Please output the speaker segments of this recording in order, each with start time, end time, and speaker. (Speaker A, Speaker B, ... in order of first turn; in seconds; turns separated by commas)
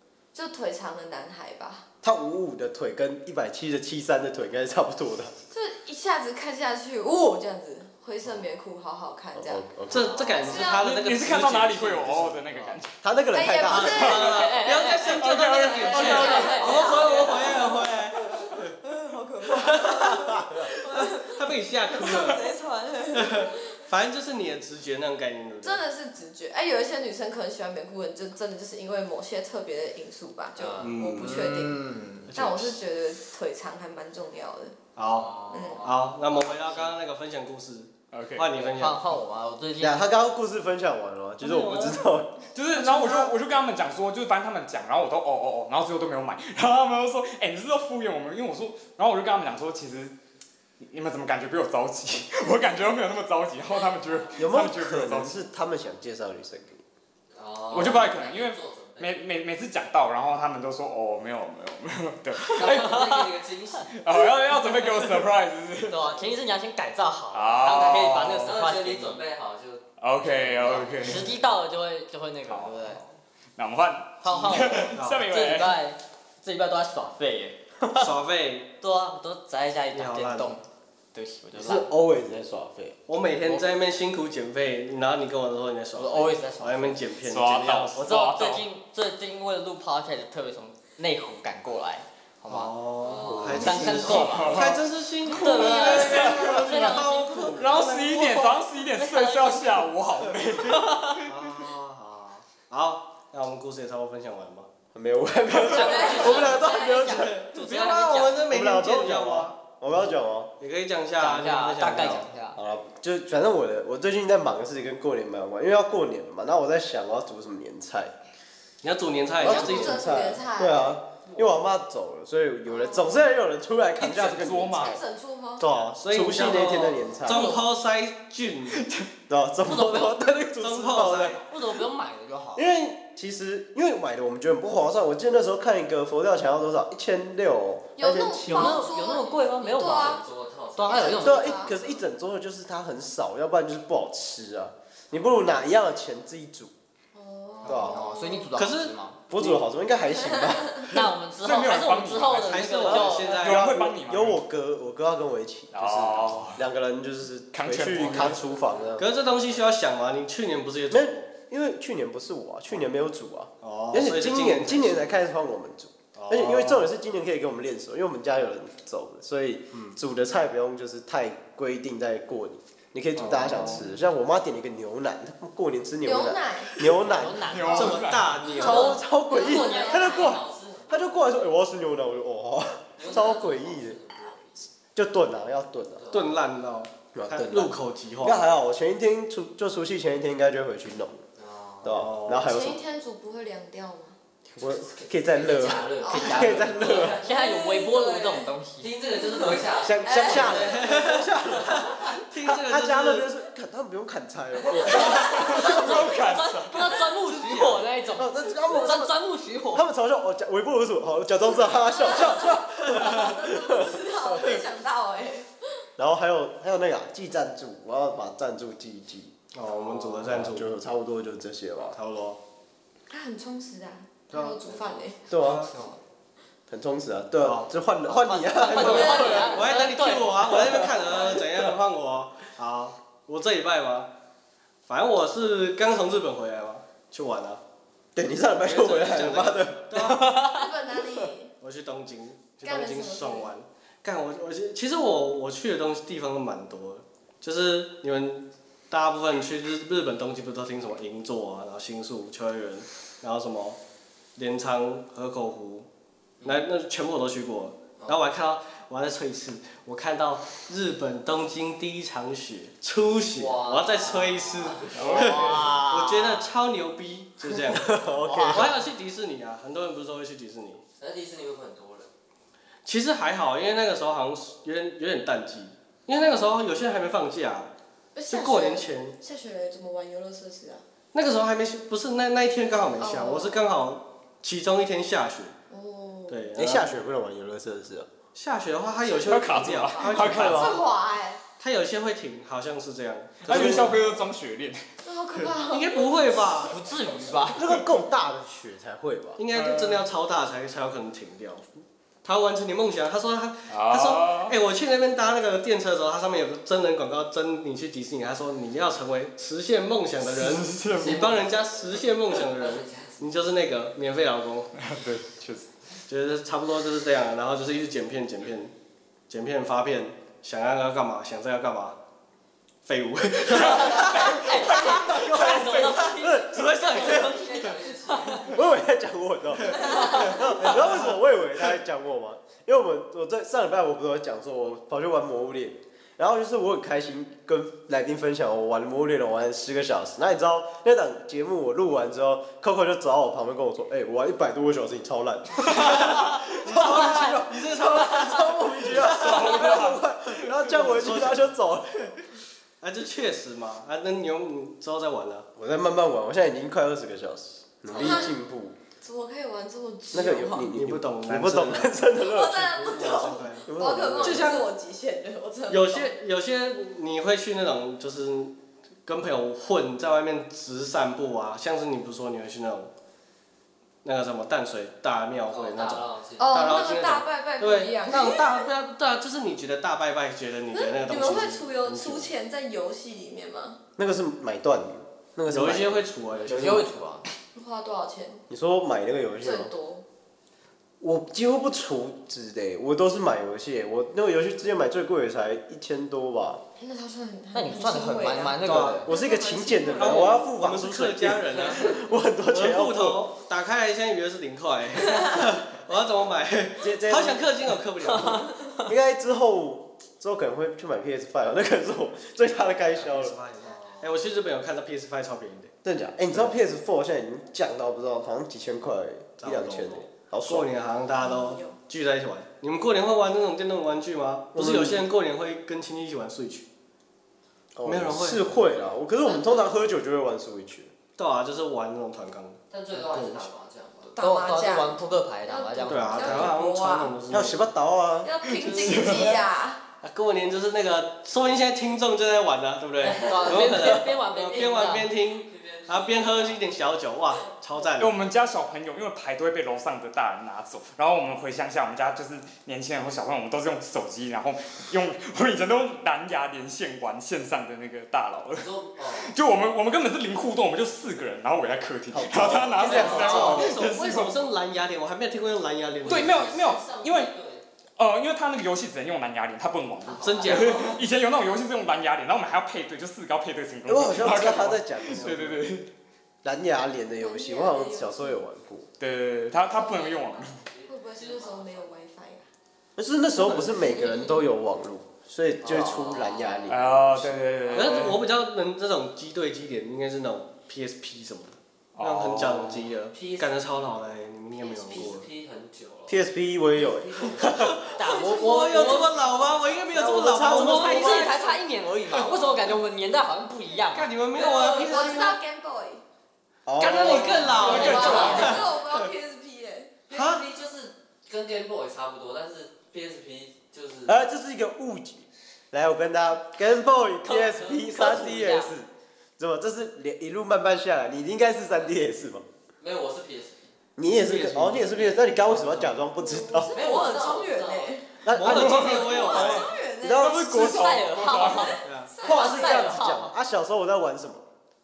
Speaker A: 0.3-1.9, Speaker B: 2.0-5.3, Speaker A: 5.5-9.7, Speaker B: 9.3-10.2, Speaker C: 9.9-10.8, Speaker D: 9.9-12.8, Speaker A: 10.4-10.8, Speaker E: 10.7-12.9, Speaker B: 13.0-14.2, Speaker A: 13.3-14.4, Speaker D: 13.7-18.7, Speaker E: 13.8-14.3, Speaker F: 14.2-17.4, Speaker E: 15.1-16.8, Speaker C: 15.5-17.5, Speaker A: 15.6-23.6, Speaker D: 19.5-22.4, Speaker B: 19.9-20.7, Speaker D: 23.1-25.8, Speaker A: 25.6-31.8, Speaker C: 30.6-30.9, Speaker D: 30.8-31.5, Speaker F: 31.2-32.3, Speaker D: 32.3-32.8, Speaker A: 32.3-34.8, Speaker D: 35.0-39.2, Speaker C: 35.0-37.0, Speaker A: 35.5-35.9, Speaker E: 38.1-38.5, Speaker F: 38.6-40.0, Speaker B: 39.8-42.4, Speaker F: 41.4-42.0, Speaker E: 42.5-50.1, Speaker F: 42.7-43.3, Speaker A: 42.9-43.2, Speaker E: 50.8-55.4, Speaker B: 54.4-56.8, Speaker C: 57.4-59.2, Speaker E: 57.7-63.0, Speaker F: 62.4-63.3, Speaker C: 62.5-63.9, Speaker E: 63.9-66.1, Speaker F: 65.9-69.2, Speaker E: 67.3-68.5, Speaker C: 68.4-71.3, Speaker E: 70.0-71.3, Speaker F: 70.6-73.0, Speaker E: 72.5-72.9, Speaker E: 73.6-75.8, Speaker F: 74.2-78.1, Speaker D: 74.6-75.3, Speaker D: 77.9-78.7, Speaker F: 78.8-81.9, Speaker D: 79.9-80.5, Speaker B: 81.5-83.0, Speaker D: 83.1-88.0, Speaker F: 83.4-83.7, Speaker F: 86.0-87.1, Speaker E: 87.2-88.6, Speaker F: 88.0-92.7, Speaker D: 92.5-98.5, Speaker C: 93.0-93.7, Speaker F: 93.3-99.9, Speaker E: 93.8-101.3, Speaker F: 100.7-101.2, Speaker D: 101.3-104.7, Speaker B: 105.0-110.5, Speaker F: 105.5-108.5, Speaker A: 105.6-107.0, Speaker D: 107.0-112.3, Speaker F: 111.2-112.6, Speaker B: 112.5-118.1, Speaker D: 118.8-120.0, Speaker B: 119.4-125.0, Speaker A: 119.4-121.0, Speaker A: 122.7-123.3, Speaker E: 124.0-125.0, Speaker A: 124.8-125.7, Speaker B: 125.6-127.6, Speaker D: 126.0-128.8, Speaker A: 127.3-127.6, Speaker E: 128.8-129.1, Speaker B: 129.3-131.4, Speaker F: 129.6-130.2, Speaker D: 130.6-131.4, Speaker F: 131.4-132.7, Speaker B: 132.6-138.8, Speaker A: 138.0-140.2, Speaker F: 138.4-140.2, Speaker C: 139.8-142.0, Speaker F: 140.8-141.6, Speaker A: 140.9-141.8, Speaker B: 141.2-146.7, Speaker A: 147.1-148.5, Speaker B: 147.7-148.0, Speaker F: 147.7-149.2, Speaker D: 148.6-149.7, Speaker B: 149.3-150.9, Speaker A: 150.1-150.8, Speaker F: 150.9-153.5, Speaker E: 150.9-152.7, Speaker D: 152.4-153.7, Speaker B: 152.9-159.1, Speaker E: 153.3-154.4, Speaker E: 155.7-156.6, Speaker E: 157.5-158.4, Speaker D: 159.0-161.3, Speaker B: 160.9-177.6, Speaker D: 163.6-165.1, Speaker D: 166.2-166.9, Speaker D: 173.2-173.9, Speaker A: 176.0-176.8, Speaker F: 177.0-178.1, Speaker E: 177.5-178.5, Speaker D: 177.7-179.0, Speaker B: 178.5-184.0, Speaker A: 178.5-180.3, Speaker F: 178.7-180.3, Speaker C: 179.3-181.6, Speaker C: 183.0-184.5, Speaker B: 184.9-186.1, Speaker C: 186.0-186.4, Speaker D: 186.1-188.4, Speaker B: 187.1-191.2, Speaker C: 191.4-192.1, Speaker B: 191.8-192.8, Speaker D: 191.9-192.5, Speaker A: 192.4-194.2, Speaker B: 194.6-197.2, Speaker C: 194.6-197.3, Speaker A: 196.0-196.7, Speaker F: 196.1-198.9, Speaker A: 197.2-198.5, Speaker C: 198.8-201.1, Speaker A: 199.2-200.8, Speaker B: 199.8-206.0, Speaker D: 200.4-203.3, Speaker A: 204.9-205.8, Speaker E: 205.1-206.9, Speaker F: 205.4-209.8, Speaker D: 207.3-207.8, Speaker B: 208.1-209.2, Speaker B: 209.7-214.6, Speaker A: 211.8-215.5, Speaker B: 216.0-222.0, Speaker D: 219.5-220.7, Speaker D: 221.9-222.4, Speaker A: 223.1-225.2, Speaker D: 224.3-224.6, Speaker C: 224.7-225.0, Speaker B: 225.3-225.7, Speaker D: 225.3-225.7, Speaker B: 226.7-229.7, Speaker D: 227.4-227.7, Speaker F: 228.1-230.6, Speaker D: 228.7-234.1, Speaker A: 228.8-229.6, Speaker B: 230.5-231.0, Speaker D: 234.9-237.6, Speaker B: 238.2-240.2, Speaker D: 238.6-240.3, Speaker F: 240.0-240.7, Speaker A: 240.3-241.5, Speaker D: 241.6-253.8, Speaker A: 242.6-243.5, Speaker D: 254.4-255.9, Speaker D: 256.4-268.0, Speaker C: 263.4-265.3, Speaker F: 265.1-266.5, Speaker B: 267.5-268.7, Speaker F: 268.2-268.7, Speaker D: 268.5-270.8, Speaker C: 271.0-272.1, Speaker D: 272.9-277.7, Speaker A: 278.1-280.8, Speaker D: 278.3-279.2, Speaker D: 281.1-285.6, Speaker A: 283.0-283.6, Speaker A: 285.7-286.5, Speaker D: 286.3-286.9, Speaker B: 286.6-288.1, Speaker D: 288.4-290.8, Speaker E: 289.2-290.8, Speaker A: 289.9-291.4, Speaker B: 290.2-290.8, Speaker D: 291.6-294.3, Speaker E: 293.4-294.8, Speaker B: 293.5-294.0, Speaker A: 295.0-296.7, Speaker D: 295.4-296.8, Speaker F: 296.6-297.7, Speaker B: 297.5-299.4, Speaker D: 299.4-301.7, Speaker E: 299.5-300.1, Speaker D: 302.2-314.7, Speaker E: 303.7-304.6, Speaker E: 310.3-311.4, Speaker C: 310.9-313.3, Speaker E: 314.8-315.7, Speaker D: 316.1-318.7, Speaker D: 319.3-322.0, Speaker D: 322.9-327.9, Speaker E: 323.5-326.1, Speaker F: 323.6-327.4, Speaker B: 325.7-326.6, Speaker C: 326.9-328.6, Speaker F: 328.1-328.5, Speaker B: 328.4-352.2, Speaker D: 329.7-331.1, Speaker D: 345.7-349.8, Speaker E: 349.0-350.0, Speaker D: 350.5-351.5, Speaker D: 352.8-355.5, Speaker B: 355.6-358.8, Speaker A: 357.9-358.4, Speaker A: 359.0-360.7, Speaker B: 360.1-363.0, Speaker D: 360.7-362.0, Speaker A: 362.1-366.1, Speaker D: 362.8-363.7, Speaker B: 363.7-364.7, Speaker D: 364.2-364.7, Speaker D: 365.7-368.6, Speaker D: 369.1-372.9, Speaker D: 374.0-382.3, Speaker C: 375.5-376.5, Speaker A: 376.4-378.7, Speaker A: 380.7-383.8, Speaker B: 384.0-386.9, Speaker D: 385.5-386.9, Speaker F: 386.5-387.2, Speaker A: 387.6-388.4, Speaker B: 388.5-389.7, Speaker A: 389.4-390.0, Speaker B: 391.0-396.6, Speaker A: 396.8-400.4, Speaker F: 397.5-399.0, Speaker D: 398.6-399.1, Speaker B: 398.7-403.3, Speaker D: 399.9-408.6, Speaker B: 406.8-407.5, Speaker F: 408.2-408.6, Speaker B: 408.8-413.4, Speaker D: 412.9-415.7, Speaker C: 413.6-414.1, Speaker B: 415.8-420.7, Speaker D: 419.4-426.7, Speaker A: 421.2-421.8, Speaker B: 424.5-425.1, Speaker B: 427.8-430.9, Speaker D: 427.9-428.6, Speaker D: 431.2-433.5, Speaker C: 432.7-434.2, Speaker A: 434.1-437.2, Speaker F: 434.2-436.6, Speaker D: 435.9-437.6, Speaker B: 437.3-438.3, Speaker A: 438.2-439.8, Speaker E: 438.6-439.4, Speaker D: 438.6-439.4, Speaker D: 440.0-448.2, Speaker C: 443.0-446.9, Speaker F: 443.2-445.1, Speaker E: 448.0-464.4, Speaker C: 458.6-459.4, Speaker B: 462.1-463.8, Speaker C: 462.8-463.7, Speaker D: 462.8-466.6, Speaker C: 466.0-467.6, Speaker E: 466.1-467.3, Speaker E: 468.0-475.9, Speaker C: 470.1-471.0, Speaker D: 470.2-471.0, Speaker B: 473.9-475.6, Speaker B: 476.4-478.9, Speaker A: 477.2-478.4, Speaker E: 479.0-480.6, Speaker C: 479.7-481.9, Speaker A: 480.9-482.5, Speaker B: 483.0-487.4, Speaker D: 483.4-483.8, Speaker C: 485.6-486.8, Speaker E: 486.7-488.3, Speaker D: 487.7-495.3, Speaker C: 487.8-488.0, Speaker E: 492.0-492.9, Speaker C: 493.1-500.1, Speaker B: 496.1-497.9, Speaker D: 497.4-501.4, Speaker F: 498.0-499.1, Speaker A: 498.2-499.1, Speaker B: 499.9-501.3, Speaker F: 500.2-504.1, Speaker D: 503.9-505.4, Speaker C: 504.3-504.9, Speaker A: 504.3-506.0, Speaker B: 506.7-507.9, Speaker D: 506.8-509.1, Speaker C: 507.1-508.6, Speaker A: 507.5-509.9, Speaker F: 507.5-508.6, Speaker E: 507.5-508.6, Speaker C: 510.1-514.2, Speaker D: 510.1-510.4, Speaker B: 514.1-522.5, Speaker F: 517.2-518.7, Speaker C: 522.8-523.7, Speaker B: 524.0-526.7, Speaker D: 524.1-525.9, Speaker A: 526.2-530.4, Speaker C: 526.7-528.0, Speaker B: 528.2-531.0, Speaker D: 528.3-529.7, Speaker E: 528.5-529.5, Speaker E: 530.1-531.8, Speaker F: 530.4-533.3, Speaker A: 531.3-533.1, Speaker D: 531.8-532.1, Speaker B: 532.2-534.5